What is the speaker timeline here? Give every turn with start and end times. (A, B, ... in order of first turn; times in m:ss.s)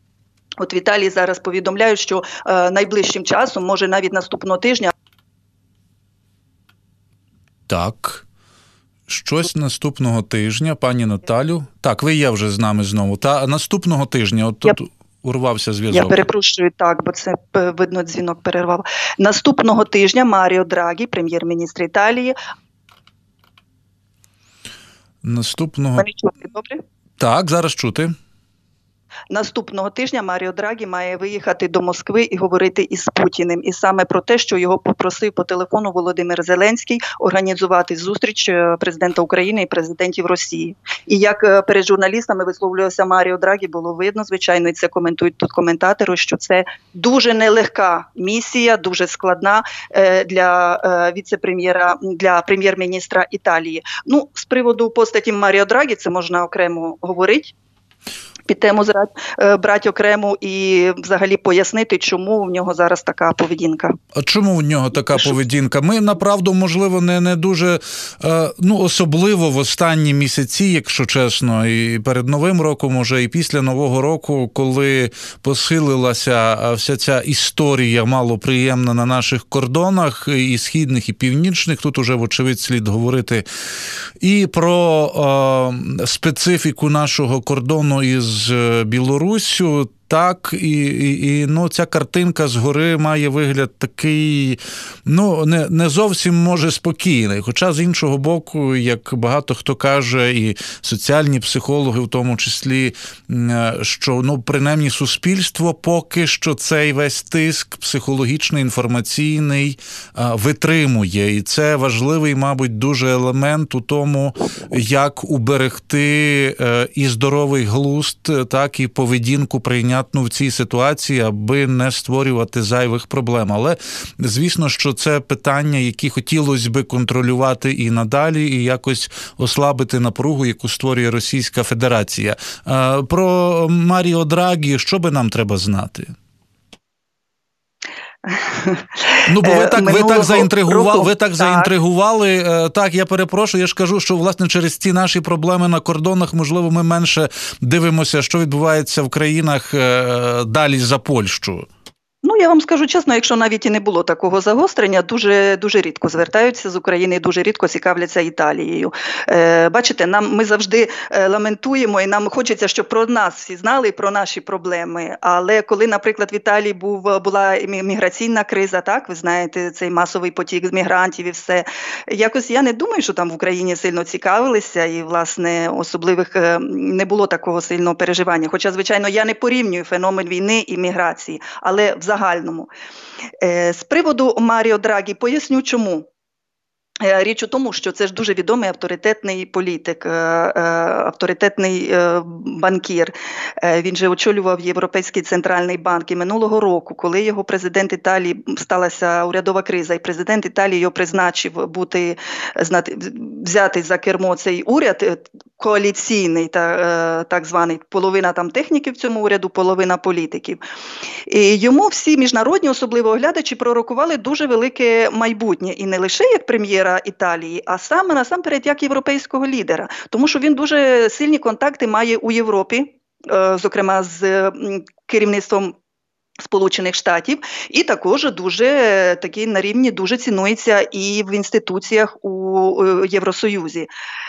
0:00.6-0:04.9 A
0:07.7-0:08.2 B
0:09.1-0:16.2 B
0:15.9-0:22.3 A
0:25.2-0:26.1 B
0:26.0-0:26.8 A
0:27.2-0:28.1 B
0:29.3-0:57.5 A
0:58.5-1:03.9 A
1:04.1-1:23.4 B
1:24.2-2:16.1 B
2:18.2-2:21.7 A
2:19.3-2:31.7 B
2:32.2-3:02.7 A
3:03.4-3:06.1 A
3:07.0-3:30.6 A
3:31.3-3:45.8 A
3:46.4-3:53.9 A